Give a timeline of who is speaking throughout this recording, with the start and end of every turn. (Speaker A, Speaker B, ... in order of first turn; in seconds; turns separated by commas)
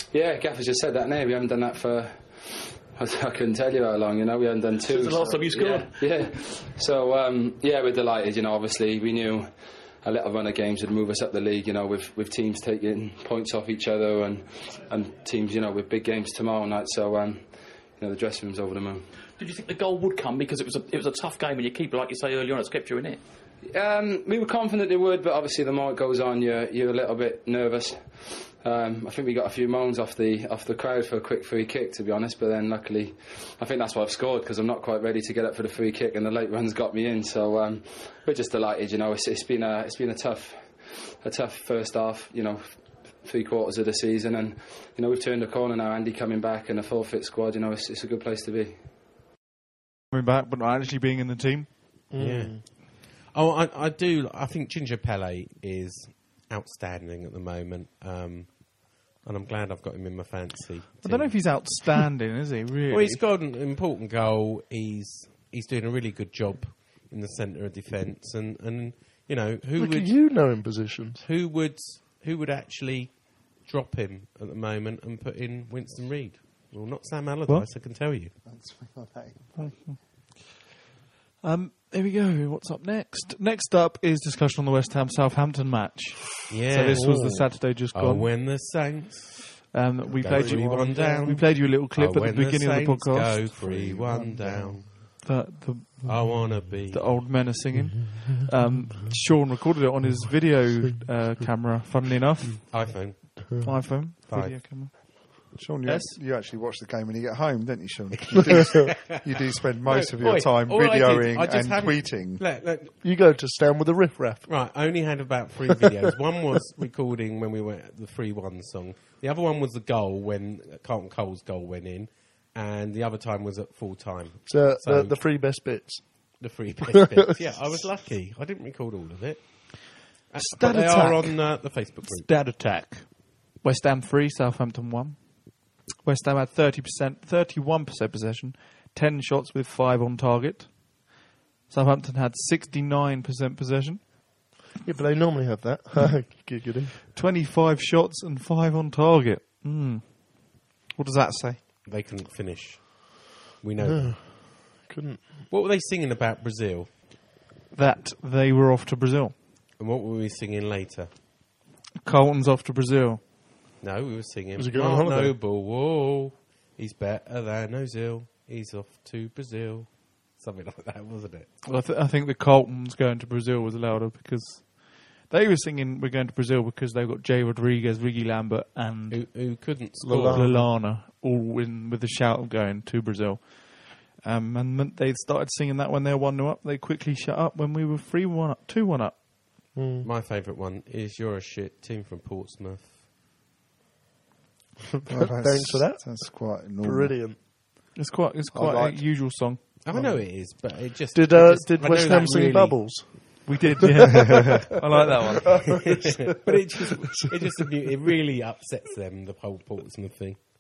Speaker A: 0.1-9.5, Speaker B: 4.8-6.2, Speaker A: 10.0-19.1, Speaker B: 19.4-23.2, Speaker A: 23.6-48.8, Speaker C: 50.1-51.9, Speaker D: 52.1-52.7, Speaker E: 52.2-61.8, Speaker C: 61.0-63.2, Speaker E: 62.9-70.2, Speaker D: 69.8-71.2, Speaker E: 71.2-78.3, Speaker F: 78.4-79.8, Speaker C: 79.6-80.0, Speaker C: 81.4-88.3, Speaker E: 86.5-95.1, Speaker C: 89.7-93.5, Speaker F: 90.1-91.2, Speaker F: 93.6-94.8, Speaker C: 95.2-103.0, Speaker E: 96.0-97.3, Speaker E: 102.7-103.6, Speaker D: 103.4-103.8, Speaker C: 103.6-106.2, Speaker E: 104.3-105.0, Speaker F: 105.5-112.5, Speaker E: 109.9-113.0, Speaker D: 113.0-114.5, Speaker E: 114.5-125.3, Speaker D: 124.5-127.7, Speaker E: 126.4-132.3, Speaker C: 130.4-141.1, Speaker C: 141.7-144.2, Speaker D: 144.8-146.9, Speaker C: 147.1-151.6, Speaker E: 151.8-154.6, Speaker D: 153.8-155.4, Speaker E: 155.5-156.9, Speaker C: 157.7-159.4, Speaker E: 159.8-161.1, Speaker C: 162.0-163.2, Speaker E: 163.8-171.5, Speaker D: 164.6-165.3, Speaker C: 171.6-179.2, Speaker E: 179.1-180.4, Speaker D: 180.0-180.7, Speaker C: 180.3-189.2, Speaker D: 189.7-190.1, Speaker E: 190.0-193.0, Speaker F: 195.1-197.5, Speaker D: 195.1-197.4, Speaker C: 197.9-199.6, Speaker F: 198.5-199.1, Speaker E: 199.8-203.4, Speaker D: 199.9-200.2, Speaker D: 201.1-204.4, Speaker C: 203.4-205.7, Speaker D: 206.3-207.5, Speaker E: 206.3-210.5